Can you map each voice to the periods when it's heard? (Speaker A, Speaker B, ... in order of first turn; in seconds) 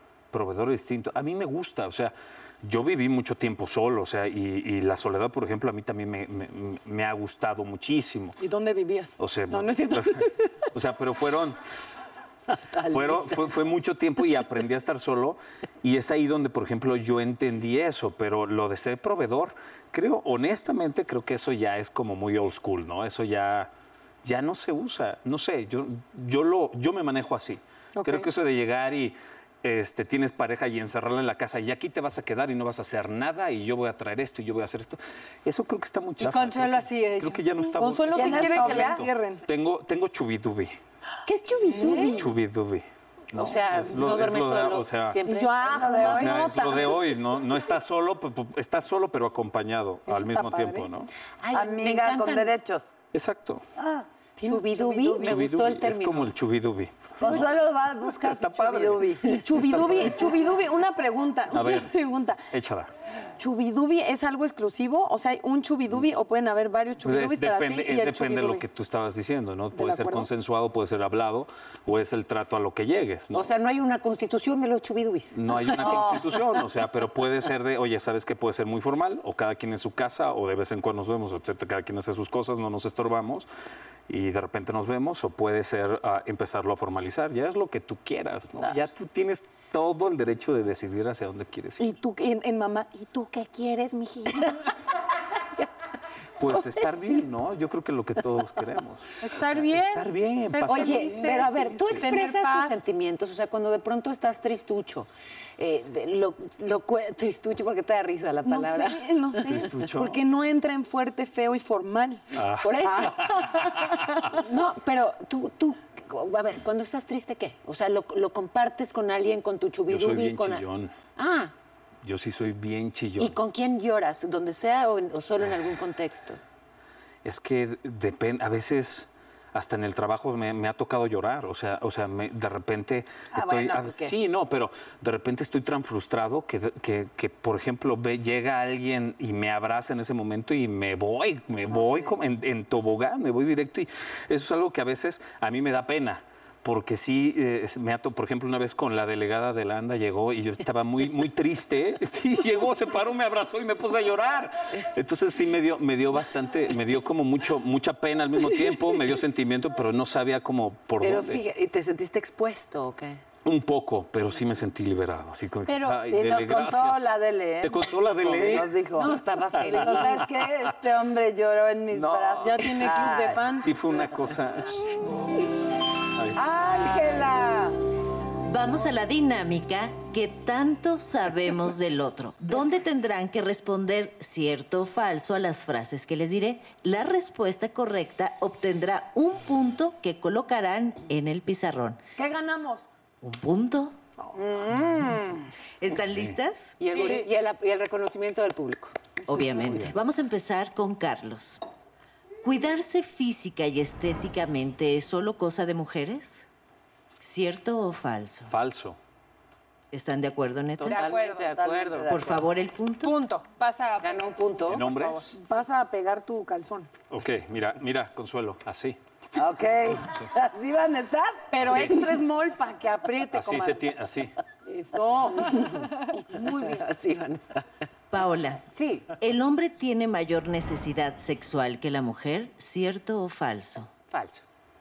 Speaker A: 0.3-8.3, 9.2-11.6, 12.8-23.7, 24.2-40.8, 42.0-45.2, 45.8-51.1, 53.1-53.6, 55.2-57.5, 58.2-60.3, 61.5-61.9, 62.5-62.9, 67.0-73.5, 75.3-83.5, 84.1-91.9, 96.4-102.2, 109.5-110.2, 112.3-114.0, 119.9-121.0, 122.0-123.4, 127.2-161.4, 163.4-168.8, 169.6-170.0, 171.9-172.7, 173.6-174.9, 176.1-177.1, 196.1-196.4, 208.5-209.0, 214.7-215.3, 217.1-219.0, 220.0-220.3, 221.6-222.0, 223.3-224.3
Speaker B: 8.4-10.7, 27.9-28.3, 37.8-39.5, 41.6-42.3, 45.2-47.0, 50.0-50.9, 54.4-55.4, 59.2-62.5, 63.4-68.7, 69.7-70.3, 91.8-94.7, 108.4-112.3, 112.8-114.0, 172.3-173.9, 192.2-192.9, 196.9-197.2, 215.3-216.9, 221.5-224.0, 224.6-226.8
Speaker C: 36.2-37.8, 99.2-102.8, 210.8-211.6, 213.0-215.2
Speaker D: 38.1-39.0, 45.7-46.6, 51.5-52.9, 53.8-54.1, 57.2-60.0, 75.8-76.2, 166.1-173.6, 176.3-177.8, 194.3-195.4, 211.5-212.4, 219.3-221.5
Speaker E: 41.2-42.3, 43.3-46.2, 51.4-52.5, 54.4-56.3, 73.3-76.1, 96.5-96.8, 100.7-109.7, 112.6-121.5, 123.2-126.4, 133.3-134.1, 161.0-163.2, 168.4-170.3, 196.8-198.9, 210.8-212.3, 214.0-214.9, 225.4-227.7, 228.7-229.1, 234.1-234.4
Speaker F: 178.4-192.0, 193.2-194.0, 195.8-196.8, 199.3-201.6, 202.4-206.4, 207.2-208.5, 209.9-211.1, 212.1-213.1, 228.1-228.7, 229.2-233.9